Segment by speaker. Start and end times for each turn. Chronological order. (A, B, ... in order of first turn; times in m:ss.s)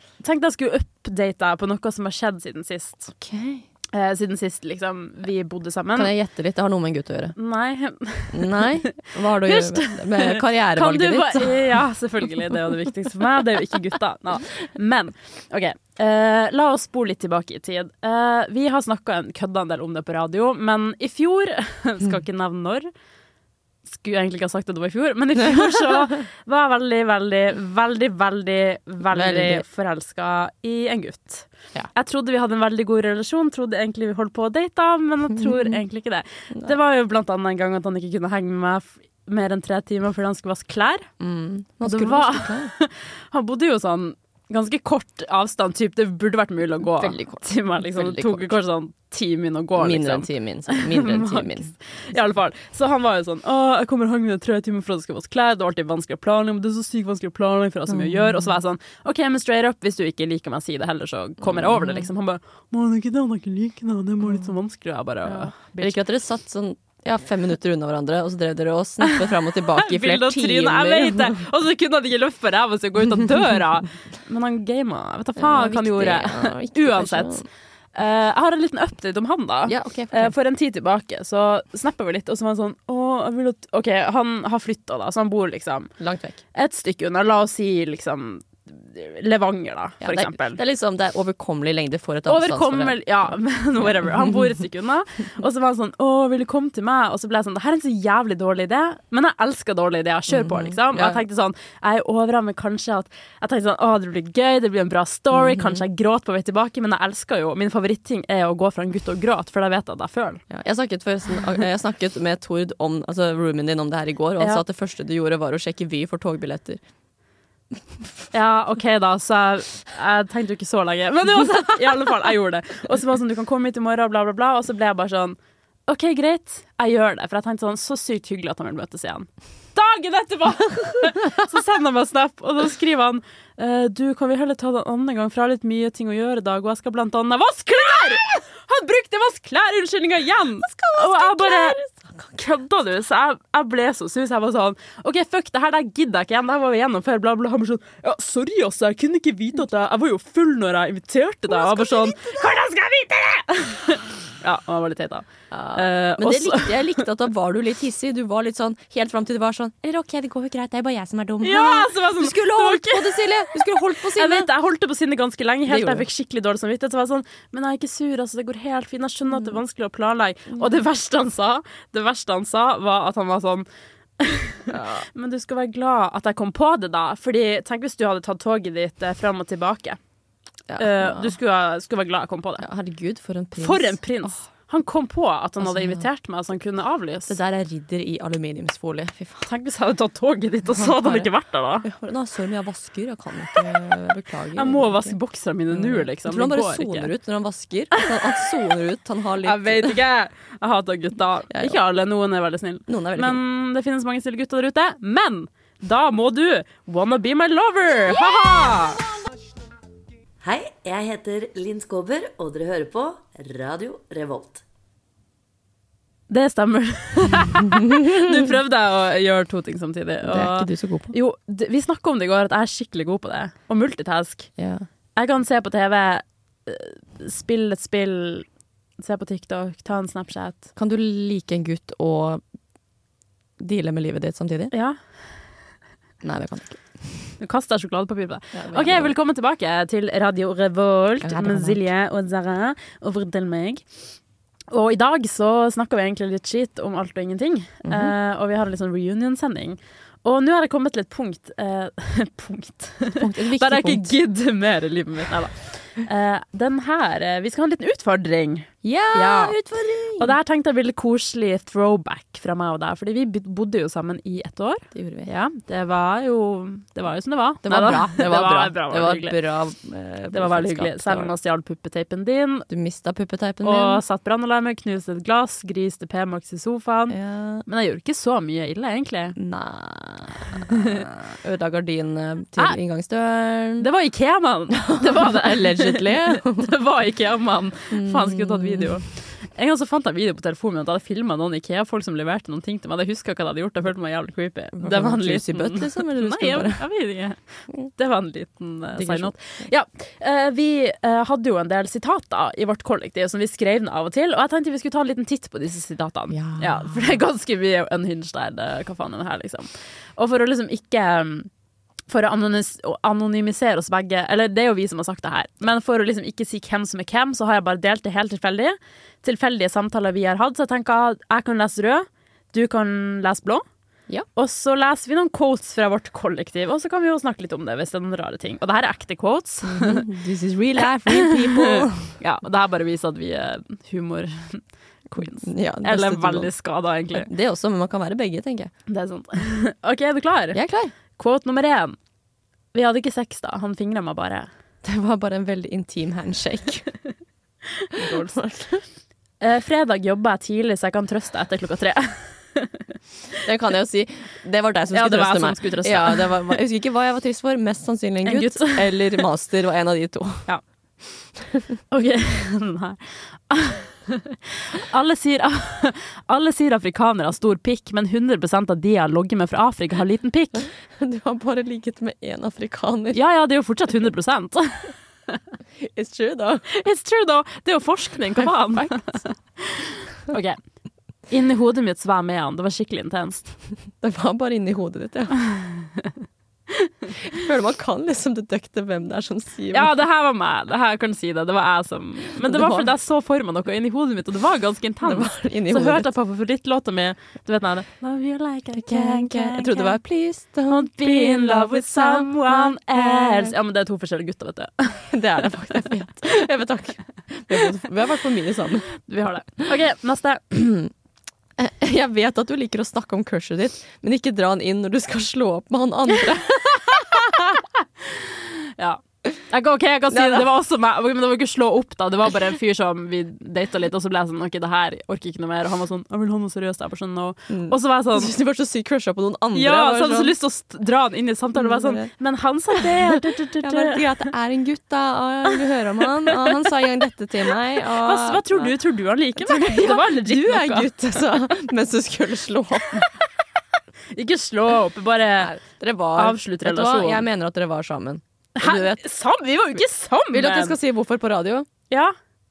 0:00.2-0:03.1 A
0:03.1-0:03.6 B
0:03.9-0:06.1 A
0:05.9-0:07.3 B
0:07.4-0:08.7 A
0:08.3-0:11.7 B
0:09.4-0:22.9 A
0:23.9-0:41.1 A
0:29.1-0:29.6 B
0:35.4-0:35.8 B
0:41.2-0:42.7 B
0:41.8-1:06.0 A
0:46.9-0:48.6 B
0:49.8-0:51.7 B
0:57.9-0:58.5 B
1:01.4-1:02.1 B
1:05.2-1:11.4 B
1:09.7-1:17.4 A
1:15.4-1:17.5 B
1:17.9-1:25.9 A
1:19.7-1:20.3 B
1:26.0-1:26.4 B
1:26.5-1:30.6 A
1:30.0-1:33.3 B
1:32.3-1:50.4 A
1:33.8-1:34.3 B
1:40.3-1:41.2 B
1:45.3-1:45.8 B
1:50.5-1:56.8 B
1:58.3-2:21.8 A
2:20.6-2:22.4 B
2:22.4-2:36.9 A
2:31.5-2:32.4 B
2:35.5-2:44.5 B
2:41.4-2:43.2 A
2:44.1-2:53.6 A
2:45.7-2:46.0 B
2:54.2-3:00.0 A
2:54.7-2:55.0 B
3:00.7-3:01.4 B
3:00.8-3:02.6 A
3:02.6-3:04.1 B
3:03.6-3:07.3 A
3:05.6-3:06.1 B
3:07.3-3:09.5 B
3:09.4-3:11.9 A
3:10.7-3:11.3 B
3:11.8-3:15.2 B
3:14.6-3:17.1 A
3:15.7-3:20.0 B
3:19.4-3:29.0 A
3:21.5-3:21.8 B
3:22.9-3:23.4 B
3:30.4-3:34.6 C
3:36.3-3:44.5 A
3:40.2-3:41.1 B
3:44.6-3:44.8 B
3:45.2-3:48.5 A
3:49.0-3:50.6 A
3:50.8-3:52.4 B
3:53.6-3:54.7 B
3:54.7-3:55.0 A
3:56.2-3:57.3 B
3:57.4-4:03.8 A
3:58.5-3:59.1 B
4:01.2-4:01.8 B
4:04.7-4:19.6 A
4:07.8-4:08.1 B
4:13.1-4:14.2 B
4:18.8-4:20.3 B
4:20.2-4:29.4 A
4:24.9-4:25.3 B
4:27.6-4:31.3 B
4:30.3-4:32.7 A
4:32.7-4:34.0 B
4:33.6-4:39.4 A
4:37.1-4:37.6 B
4:39.4-4:43.9 B
4:40.7-4:41.0 A
4:43.8-5:11.5 A
4:44.8-4:46.7 B
4:47.9-4:49.0 B
4:54.8-4:56.8 B
4:59.0-4:59.3 B
5:06.3-5:07.2 B
5:12.1-5:23.6 A
5:24.3-5:30.0 A
5:29.6-5:32.1 B
5:31.1-5:34.6 A
5:35.1-5:36.5 B
5:35.2-5:37.3 A
5:37.1-5:38.7 B
5:38.9-5:40.6 A
5:40.5-5:40.9 B
5:41.1-5:42.0 A
5:42.7-5:44.5 A
5:44.8-5:46.9 B
5:47.9-5:48.4 A
5:48.0-5:48.8 B
5:49.4-5:52.8 A
5:53.4-6:00.5 B
5:54.9-5:56.6 A
5:58.2-5:59.2 A
6:01.9-6:10.7 A
6:10.9-6:13.2 B
6:13.1-6:14.9 A
6:15.8-6:16.7 B
6:16.7-6:20.6 A
6:18.4-6:19.2 B
6:21.3-6:23.5 A
6:24.0-6:25.4 B
6:27.3-6:29.9 B
6:29.7-6:40.0 A
6:32.4-6:32.9 B
6:35.0-6:36.1 B
6:38.7-6:43.5 B
6:40.7-6:45.1 A
6:45.1-6:48.9 B
6:49.0-6:50.5 A
6:50.5-6:50.9 B
6:51.6-6:57.6 B
6:58.2-7:08.3 A
7:00.1-7:00.5 B
7:07.5-7:10.3 B
7:09.5-7:14.0 A
7:11.6-7:12.1 B
7:12.8-7:13.0 B
7:13.6-7:18.7 B
7:18.0-7:20.9 A
7:19.4-7:23.1 B
7:24.1-7:25.5 A
7:25.4-7:29.0 B
7:26.2-7:27.2 A
7:28.6-7:30.8 A
7:30.3-7:31.7 B